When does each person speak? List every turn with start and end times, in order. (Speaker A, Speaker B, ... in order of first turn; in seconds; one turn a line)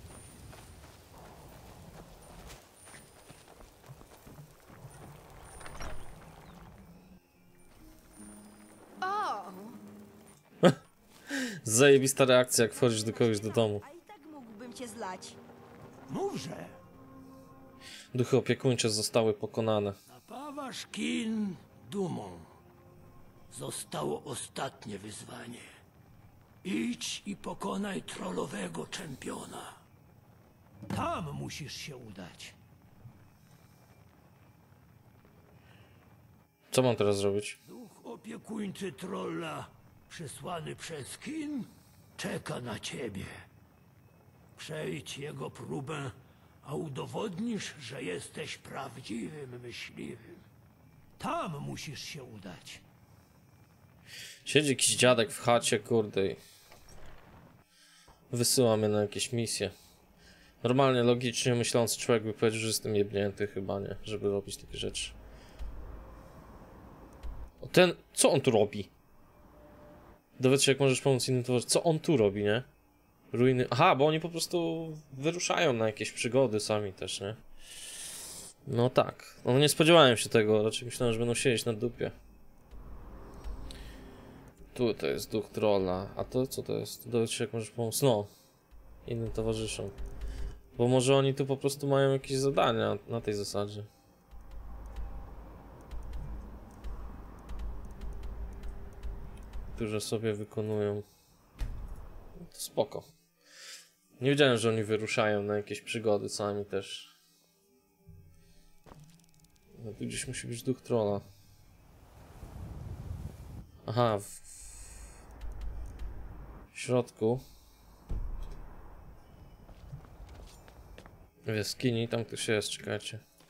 Speaker A: 9.0-9.8
Speaker B: 11.3-13.8
Speaker A: 12.8-15.4
Speaker C: 16.1-16.8
Speaker B: 18.1-20.0
Speaker C: 20.1-22.5
Speaker C: 23.5-25.6
Speaker C: 26.6-29.8
Speaker C: 30.9-32.6
Speaker B: 36.7-37.6
Speaker C: 37.6-43.4
Speaker C: 44.6-50.4
Speaker C: 51.2-52.8
Speaker B: 54.5-56.4
Speaker B: 58.3-59.7
Speaker B: 60.6-65.1
Speaker B: 67.6-68.9
Speaker B: 70.4-72.7
Speaker B: 73.3-77.4
Speaker B: 78.7-82.1
Speaker B: 84.7-88.3
Speaker B: 89.1-90.0
Speaker B: 90.8-93.9
Speaker B: 99.7-101.0
Speaker B: 102.4-103.1
Speaker B: 104.2-107.1
Speaker B: 109.8-111.2
Speaker B: 113.9-114.8
Speaker B: 116.7-117.4
Speaker B: 121.5-123.2